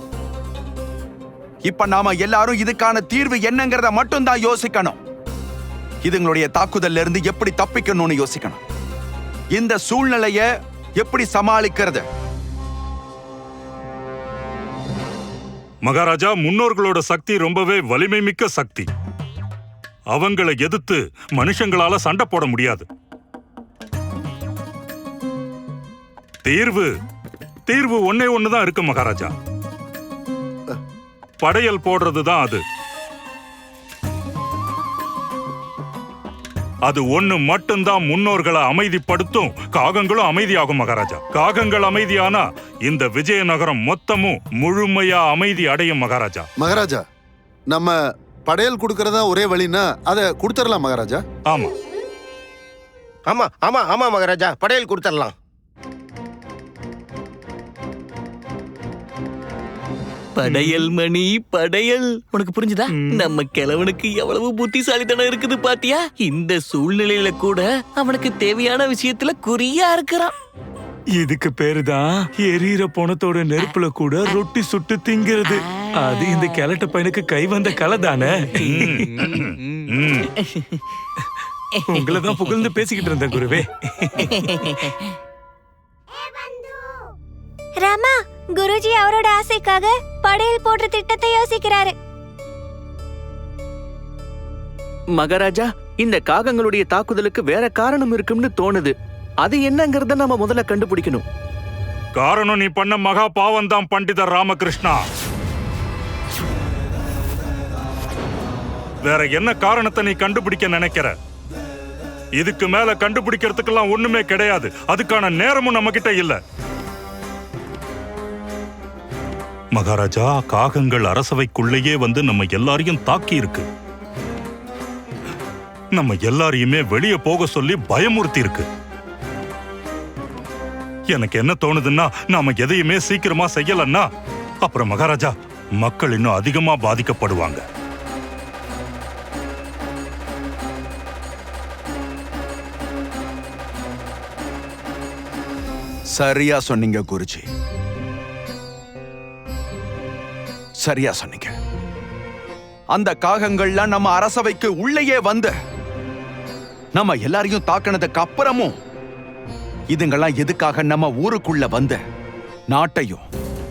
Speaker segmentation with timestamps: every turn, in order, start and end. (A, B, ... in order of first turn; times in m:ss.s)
0:01.6-0:05.0 A
0:06.0-0:08.6 A
0:09.5-0:10.4 A
0:11.0-0:12.0 A
0:15.8-0:18.9 B
0:20.1-0:22.9 B
0:26.4-0:26.9 B
0:27.7-0:29.3 B
0:31.4-0:32.6 B
0:36.9-0:46.5 B
0:46.6-0:47.0 C
0:47.7-0:48.0 C
0:48.5-0:51.2 C
0:53.3-0:55.3 D
1:00.4-1:10.3 E
1:03.0-1:03.3 F
1:11.2-1:19.1 F
1:16.1-1:16.6 E
1:19.2-1:20.3 B
1:21.9-1:24.4 F
1:27.8-1:31.9 G
1:35.2-1:41.2 H
1:42.2-1:45.0 B
1:49.1-1:51.1 B
1:52.4-1:56.4 B
1:59.8-2:03.7 B
2:06.0-2:08.7 B
2:11.1-2:14.0 B
2:14.6-2:17.6 B
2:26.2-2:27.4 A
2:30.8-2:31.5 A
2:32.9-2:35.5 A
2:37.0-2:38.7 A
2:39.9-2:42.0 A
2:42.7-2:43.3 A